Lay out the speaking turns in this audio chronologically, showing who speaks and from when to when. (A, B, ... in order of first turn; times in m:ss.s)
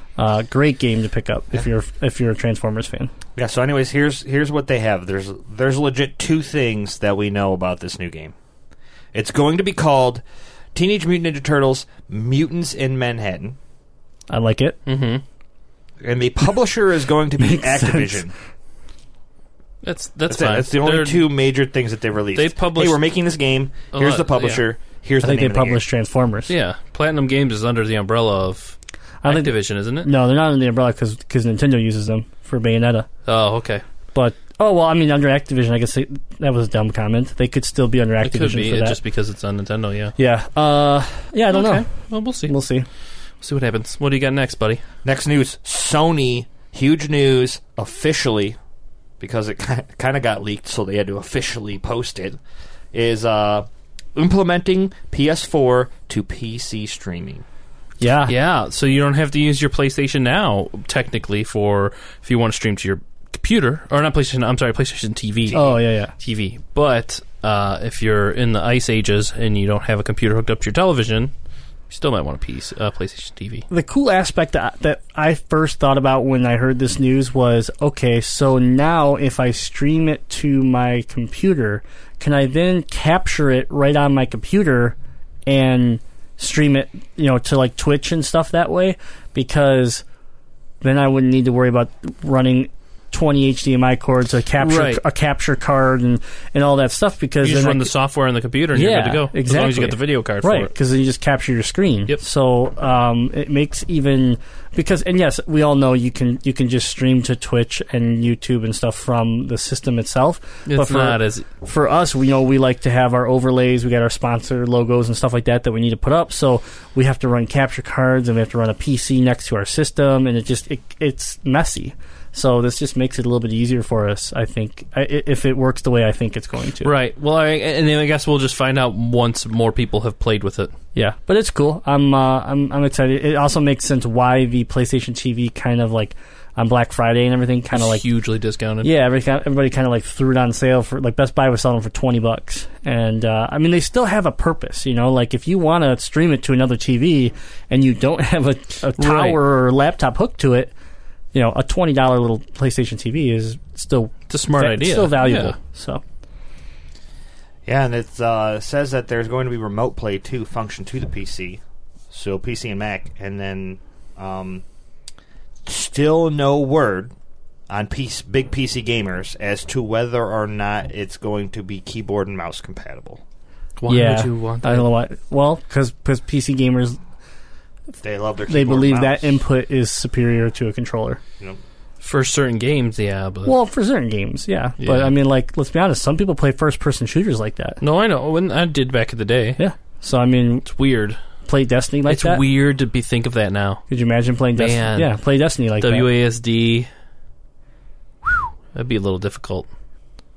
0:00.2-0:03.1 A
0:03.4-0:08.4 B
0:09.1-0:10.2 B
0:10.8-0:13.6 B
0:14.3-0:14.8 A
0:14.9-0:15.2 C
0:16.0-0:18.3 B
0:17.4-0:18.3 A
0:19.8-0:21.3 C
0:20.3-0:25.8 B
0:22.4-0:23.0 C
0:23.9-0:24.6 C
0:25.2-0:26.5 A
0:26.5-0:30.1 C
0:29.2-0:33.1 A
0:33.3-0:33.8 C
0:34.2-0:39.0 A
0:38.2-0:40.2 C
0:40.2-0:41.8 A
0:41.5-0:42.5 C
0:42.5-0:42.9 A
0:43.4-0:44.8 C
0:45.0-0:48.6 B
0:49.2-0:52.4 B
0:52.9-0:57.4 B
0:58.0-0:58.4 A
0:58.3-1:11.3 C
1:05.5-1:06.1 A
1:11.9-1:13.6 C
1:13.7-1:25.0 A
1:25.5-1:30.0 A
1:30.8-1:37.9 A
1:34.6-1:35.0 C
1:37.4-1:40.7 C
1:38.7-2:06.9 A
1:50.7-1:51.5 C
2:06.8-2:10.7 C
2:11.0-2:18.0 A
2:17.7-2:18.9 C
2:18.8-2:30.7 A
2:29.0-2:29.4 C
2:31.3-2:36.0 A
2:34.3-2:35.6 C
2:37.7-2:41.6 B
2:42.1-2:44.6 B
2:45.6-2:47.1 B
2:47.7-2:53.2 B
2:53.8-2:54.9 C
2:53.9-2:57.0 A
2:58.0-2:59.4 B
2:58.5-3:01.2 A
3:02.0-3:03.5 C
3:03.5-3:07.8 A
3:04.8-3:05.1 C
3:07.8-3:09.6 C
3:09.6-3:10.7 A
3:10.7-3:11.2 C
3:11.4-3:12.4 A
3:12.1-3:13.8 C
3:13.9-3:16.1 A
3:14.6-3:15.1 C
3:15.8-3:16.9 C
3:18.2-3:19.7 C